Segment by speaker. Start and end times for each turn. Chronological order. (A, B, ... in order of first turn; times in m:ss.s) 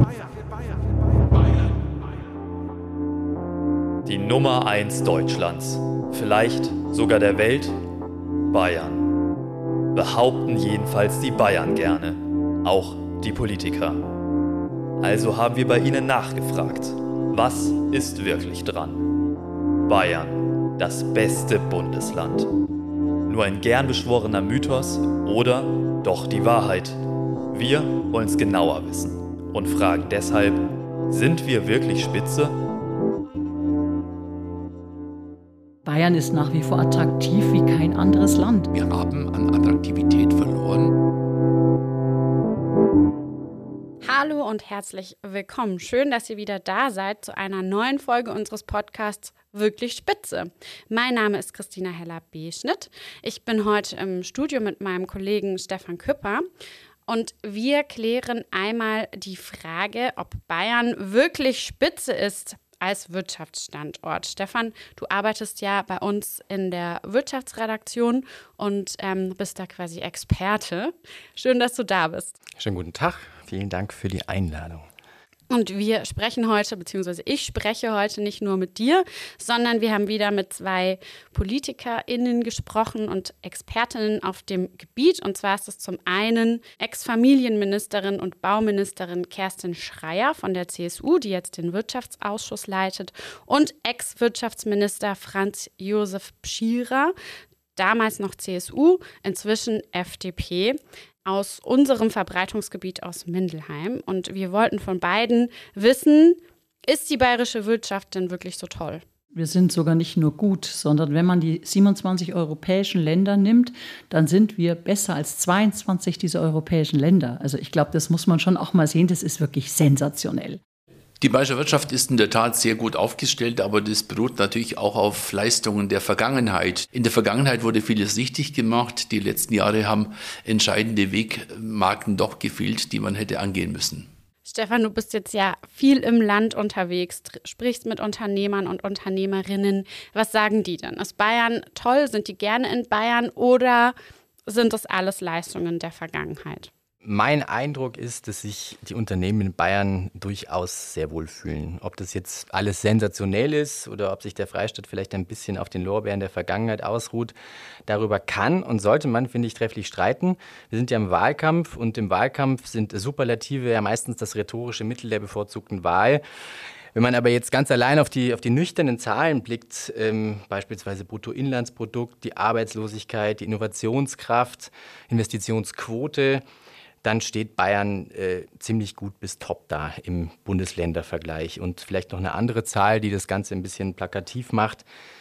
0:04.0-0:07.7 A
0:08.5-0:09.1 A
0:09.9-0:14.1 A
0:15.0-0:19.0 A
0:19.9-0:22.5 A
0:23.3-0:27.0 A
0:27.5-0:32.6 A
0:35.8-0:38.7 B
0:38.7-0:40.9 C
0:44.0-0:56.4 D
0:57.1-1:12.4 D
1:12.6-1:14.8 E
1:15.5-1:37.1 D
1:37.8-1:49.0 D
1:49.3-2:00.6 B
2:01.2-2:14.1 C
2:14.5-2:23.9 D
2:24.5-2:26.7 D
2:27.0-2:37.3 E
2:37.9-2:46.2 E
2:46.9-2:56.4 E
2:57.0-3:04.8 E